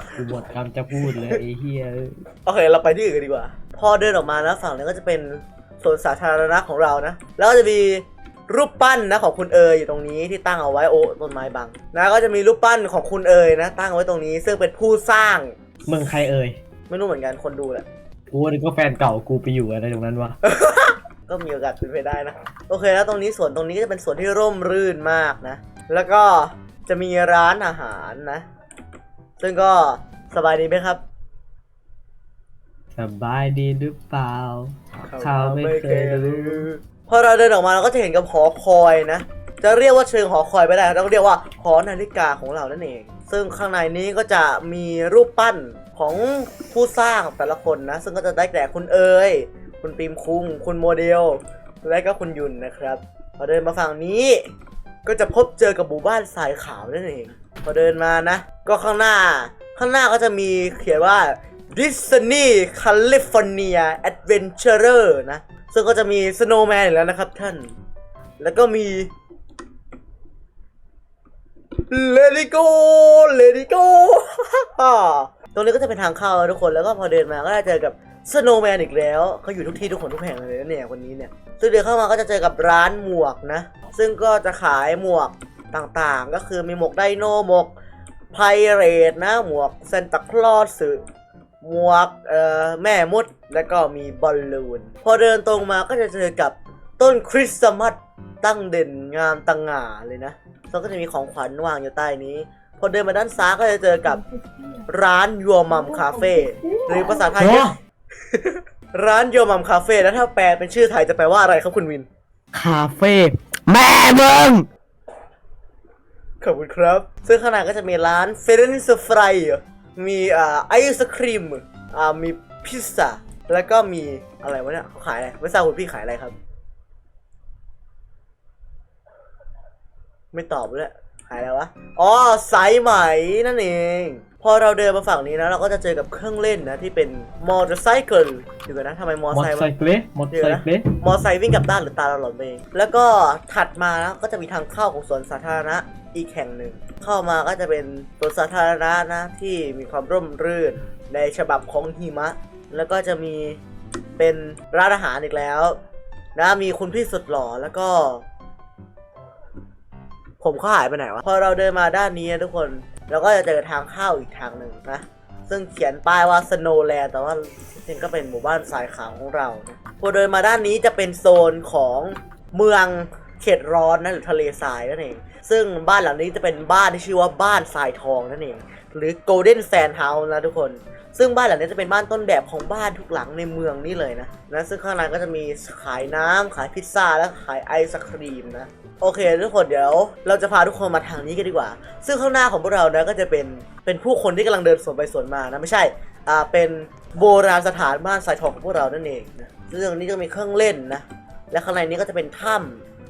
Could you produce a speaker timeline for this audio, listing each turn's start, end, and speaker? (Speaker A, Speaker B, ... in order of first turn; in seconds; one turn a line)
Speaker A: 0.2-2.2
Speaker B: 1.0-1.4
Speaker B: 2.4-15.5
Speaker A: 15.9-16.6
Speaker B: 16.9-17.9
Speaker A: 18.3-20.4
Speaker B: 20.4-28.4
Speaker B: 29.4-31.0
Speaker A: 32.9-36.7
Speaker B: 35.0-54.5
Speaker B: 55.0-67.7
Speaker B: 68.4-69.1
Speaker B: 71.9-87.7
Speaker B: 88.3-91.0
Speaker B: 91.6-104.2
Speaker B: 104.8-112.1
Speaker A: 107.3-107.8
Speaker A: 112.5-114.7
Speaker B: 116.4-126.3
Speaker B: 130.3-139.7
Speaker A: 139.3-140.9
Speaker B: 140.3-153.6
Speaker B: 154.2-155.8
Speaker B: 156.3-158.2
Speaker B: 160.4-202.8